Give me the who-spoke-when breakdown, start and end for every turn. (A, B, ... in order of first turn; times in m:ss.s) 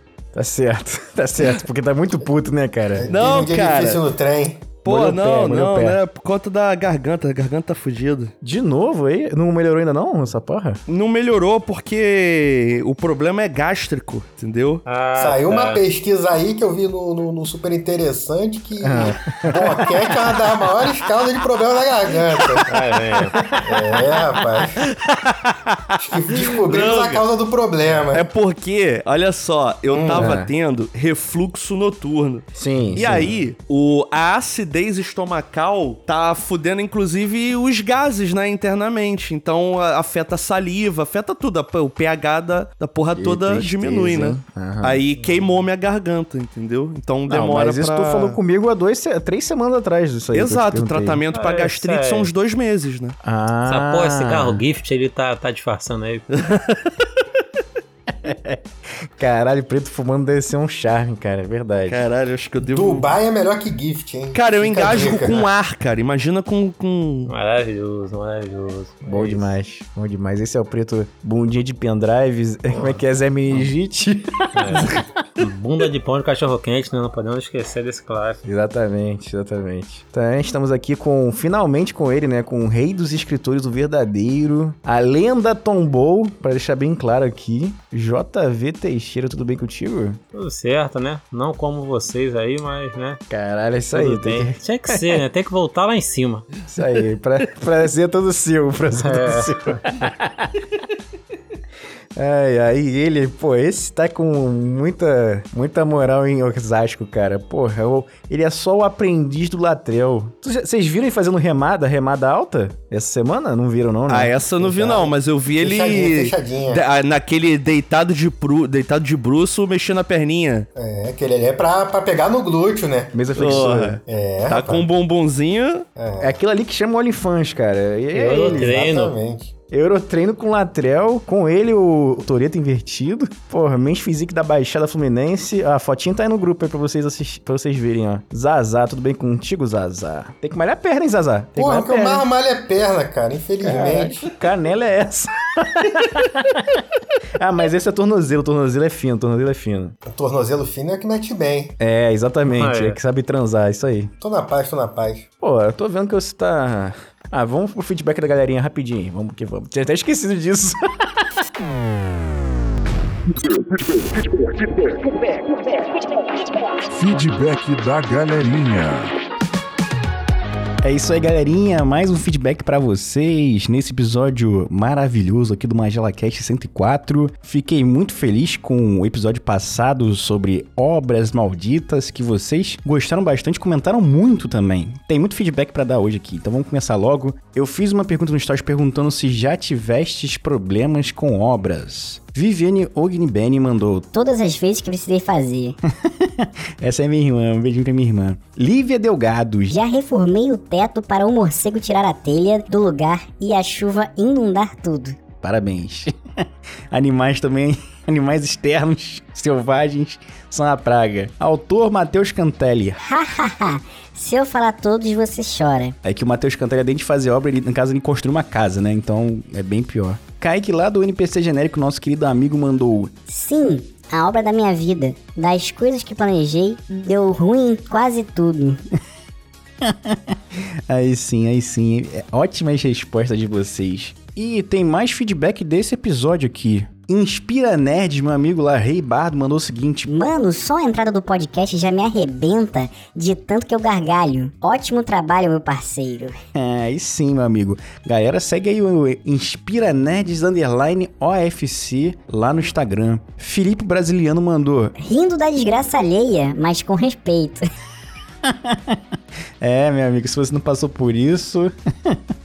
0:00.3-0:03.1 A
0:02.9-0:04.7 B
0:03.1-0:04.0 C
0:04.8-0:08.3 C
0:04.8-0:06.0 A
0:08.4-0:10.8 A
0:10.9-0:14.8 C
0:14.8-0:15.8 D
0:15.2-0:22.8 B
0:18.8-0:19.8 A
0:22.7-0:23.4 D
0:23.3-0:23.9 A
0:23.6-0:24.8 B
0:25.0-0:27.2 C
0:26.0-0:28.2 B
0:28.1-0:48.4 C
0:29.9-0:30.3 B
0:30.1-0:30.5 A
0:32.5-0:33.4 A
0:43.1-0:45.0 A
0:47.3-0:51.2 A
0:50.3-0:53.2 C
0:51.3-0:52.3 D
0:53.2-0:54.6 A
0:53.6-0:56.3 D
0:56.3-0:56.9 C
0:58.1-0:58.6 A
0:59.2-1:02.0 A
1:01.9-1:03.1 C
1:02.6-1:05.4 B
1:04.3-1:07.3 C
1:07.3-1:09.5 D
1:09.0-1:15.0 A
1:14.5-1:18.4 D
1:18.4-1:30.2 A
1:30.3-1:33.2 D
1:33.3-1:35.2 A
1:33.9-1:36.4 D
1:36.7-1:40.6 A
1:39.0-1:39.8 D
1:42.2-1:54.9 A
1:54.1-2:00.7 C
1:54.8-1:55.0 B
1:55.6-1:56.8 B
2:00.8-2:03.1 B
2:03.1-2:04.0 A
2:03.3-2:05.8 C
2:04.1-2:04.8 B
2:06.0-2:06.3 B
2:06.2-2:08.9 A
2:08.1-2:09.1 D
2:08.4-2:09.5 B
2:09.7-2:22.3 A
2:21.6-2:24.3 B
2:23.6-2:26.8 A
2:27.4-2:29.9 A
2:30.1-2:31.8 B
2:31.8-2:34.1 A
2:32.5-2:33.0 D
2:34.2-2:35.2 B
2:35.4-2:41.2 A
2:43.4-2:45.0 E
2:46.9-2:49.1 E
2:50.8-3:14.1 A
3:14.1-3:15.8 F
3:15.9-3:19.8 A
3:19.7-3:25.2 F
3:25.4-3:33.0 A
3:33.0-3:35.9 F
3:36.0-3:43.1 A
3:43.3-3:48.8 F
3:49.8-4:00.1 A
4:00.1-4:06.4 F
4:06.5-4:14.9 A
4:15.0-4:17.7 F
4:18.4-4:19.0 A
4:19.6-4:22.2 A